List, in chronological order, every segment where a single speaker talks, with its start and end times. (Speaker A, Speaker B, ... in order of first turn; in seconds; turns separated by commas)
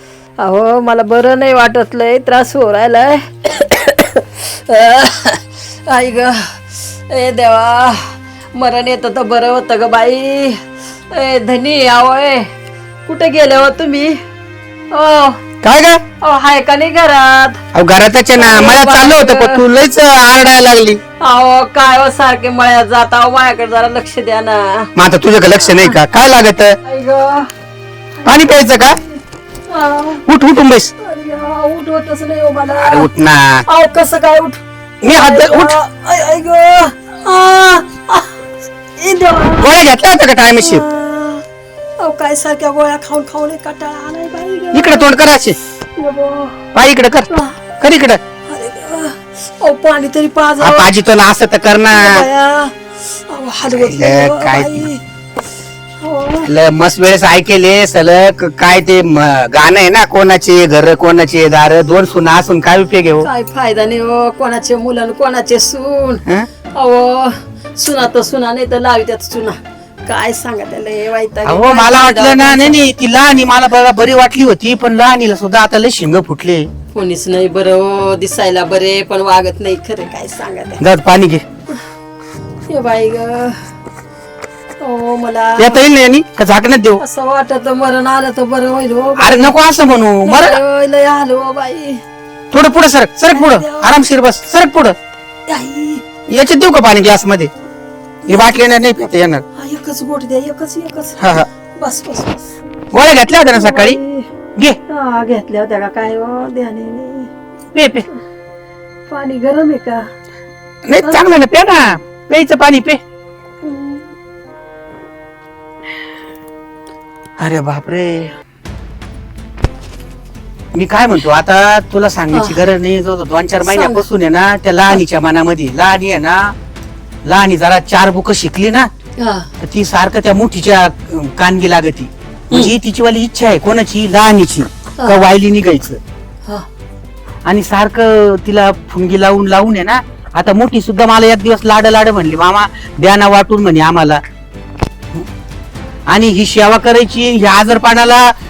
Speaker A: 0.4-10.6, Speaker A: 11.1-12.5, Speaker A: 13.1-14.2, Speaker A: 14.9-15.4, Speaker B: 15.6-16.0, Speaker A: 16.2-17.6, Speaker B: 17.7-21.0, Speaker A: 18.4-19.6, Speaker A: 21.2-24.9, Speaker B: 25.0-26.8, Speaker A: 25.6-26.0, Speaker A: 26.8-27.5, Speaker A: 28.2-29.2, Speaker B: 28.2-29.0, Speaker A: 29.7-30.2, Speaker B: 30.3-30.9, Speaker A: 31.0-33.1, Speaker B: 32.8-33.6, Speaker A: 33.7-38.4, Speaker B: 35.0-35.8, Speaker A: 39.0-39.8, Speaker B: 39.6-40.8, Speaker A: 40.6-41.4, Speaker A: 42.0-45.1, Speaker B: 44.7-45.6, Speaker A: 46.0-46.6, Speaker B: 46.7-47.3, Speaker A: 47.3-47.6, Speaker B: 47.8-48.2, Speaker A: 48.5-50.9, Speaker B: 50.6-52.3, Speaker A: 51.9-55.0, Speaker B: 53.7-54.9, Speaker A: 56.0-56.5, Speaker B: 56.5-63.3, Speaker A: 63.2-66.2, Speaker A: 66.8-72.8, Speaker B: 71.5-76.7, Speaker A: 76.9-80.8, Speaker B: 80.8-81.4, Speaker A: 82.7-83.6, Speaker A: 84.8-85.8, Speaker B: 85.6-87.0, Speaker A: 87.0-89.5, Speaker B: 89.2-90.6, Speaker A: 90.2-92.0, Speaker B: 92.5-95.0, Speaker A: 93.3-93.9, Speaker A: 95.5-96.0, Speaker B: 96.3-97.5, Speaker B: 98.3-99.4, Speaker A: 99.6-101.2, Speaker B: 101.2-101.5, Speaker A: 101.8-102.5, Speaker B: 102.9-104.0, Speaker A: 103.5-104.3, Speaker A: 104.9-107.3, Speaker B: 107.7-108.0, Speaker A: 109.1-110.1, Speaker B: 110.9-113.0, Speaker A: 113.6-114.1, Speaker B: 117.4-118.3, Speaker B: 120.7-126.5, Speaker A: 122.3-122.6, Speaker A: 123.6-124.0, Speaker B: 127.2-128.9, Speaker A: 129.2-129.5, Speaker B: 129.6-136.0, Speaker A: 135.0-135.3, Speaker B: 137.4-144.2, Speaker B: 146.1-148.3